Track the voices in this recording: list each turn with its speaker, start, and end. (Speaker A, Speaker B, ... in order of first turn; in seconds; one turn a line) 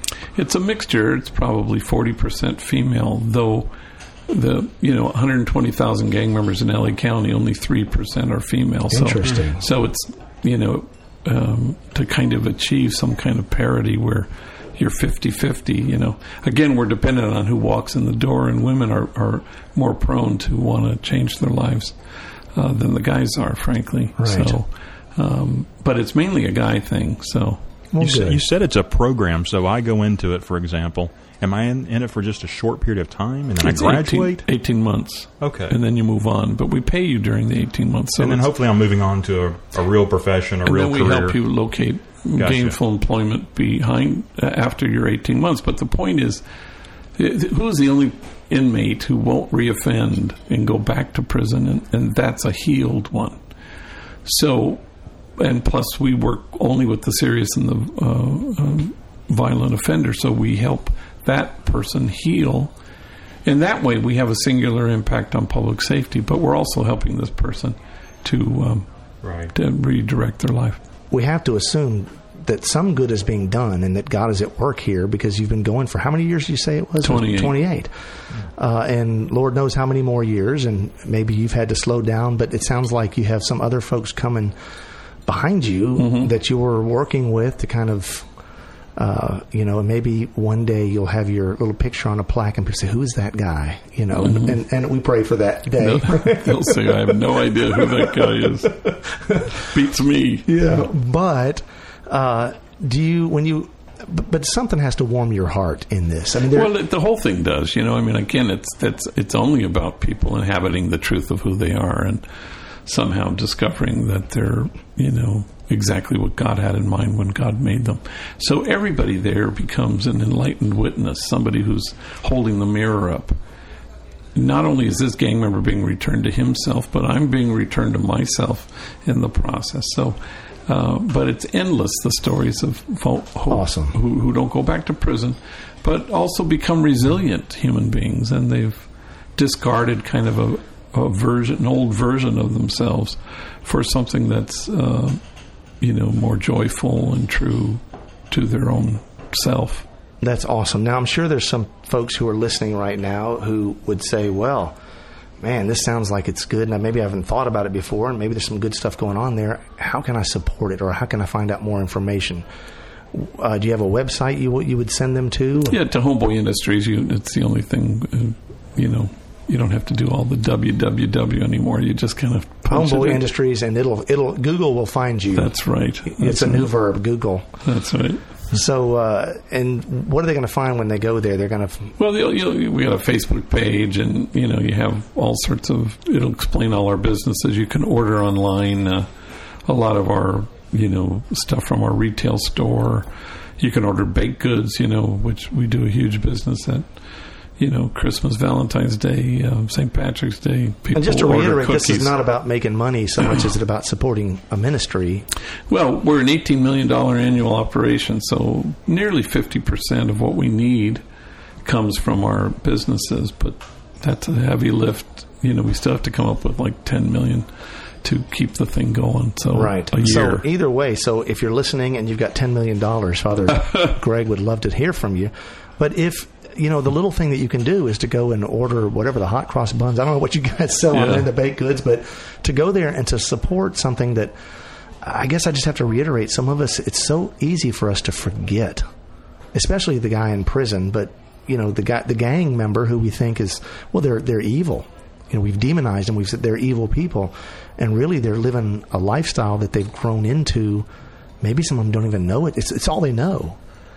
Speaker A: 0.3-3.7
Speaker A: 4.3-21.9
Speaker B: 8.9-9.6
Speaker A: 22.5-27.6
Speaker B: 24.2-24.6
Speaker B: 27.9-28.4
Speaker C: 28.0-34.5
Speaker A: 33.6-38.5
Speaker C: 35.4-35.7
Speaker C: 38.2-41.4
Speaker A: 40.6-46.4
Speaker C: 42.4-42.7
Speaker A: 47.1-53.4
Speaker A: 54.2-54.8
Speaker A: 55.4-62.7
Speaker A: 63.4-68.9
Speaker C: 69.2-69.5
Speaker A: 69.5-70.8
Speaker B: 71.1-77.9
Speaker A: 77.0-77.6
Speaker B: 78.5-84.5
Speaker B: 85.2-88.3
Speaker A: 86.0-86.3
Speaker B: 89.0-97.2
Speaker A: 94.1-94.6
Speaker A: 95.8-98.9
Speaker B: 97.7-99.5
Speaker A: 99.5-100.5
Speaker B: 100.5-106.7
Speaker A: 106.5-112.2
Speaker A: 112.8-123.3
Speaker A: 124.3-145.2
Speaker B: 133.5-134.0
Speaker A: 145.8-149.8
Speaker B: 150.2-154.7
Speaker B: 155.4-162.4
Speaker B: 163.1-165.8
Speaker A: 165.7-173.2
Speaker B: 172.7-177.4
Speaker A: 175.3-176.7
Speaker A: 177.6-178.2
Speaker B: 178.5-181.9
Speaker A: 182.0-189.1
Speaker A: 189.6-193.1
Speaker A: 193.6-196.9
Speaker A: 197.6-202.1
Speaker B: 200.9-205.3
Speaker A: 205.7-211.0
Speaker A: 211.6-217.5
Speaker A: 218.0-220.4
Speaker B: 219.5-234.3
Speaker A: 230.9-231.3
Speaker B: 235.0-238.8
Speaker B: 239.5-250.9
Speaker B: 251.4-253.6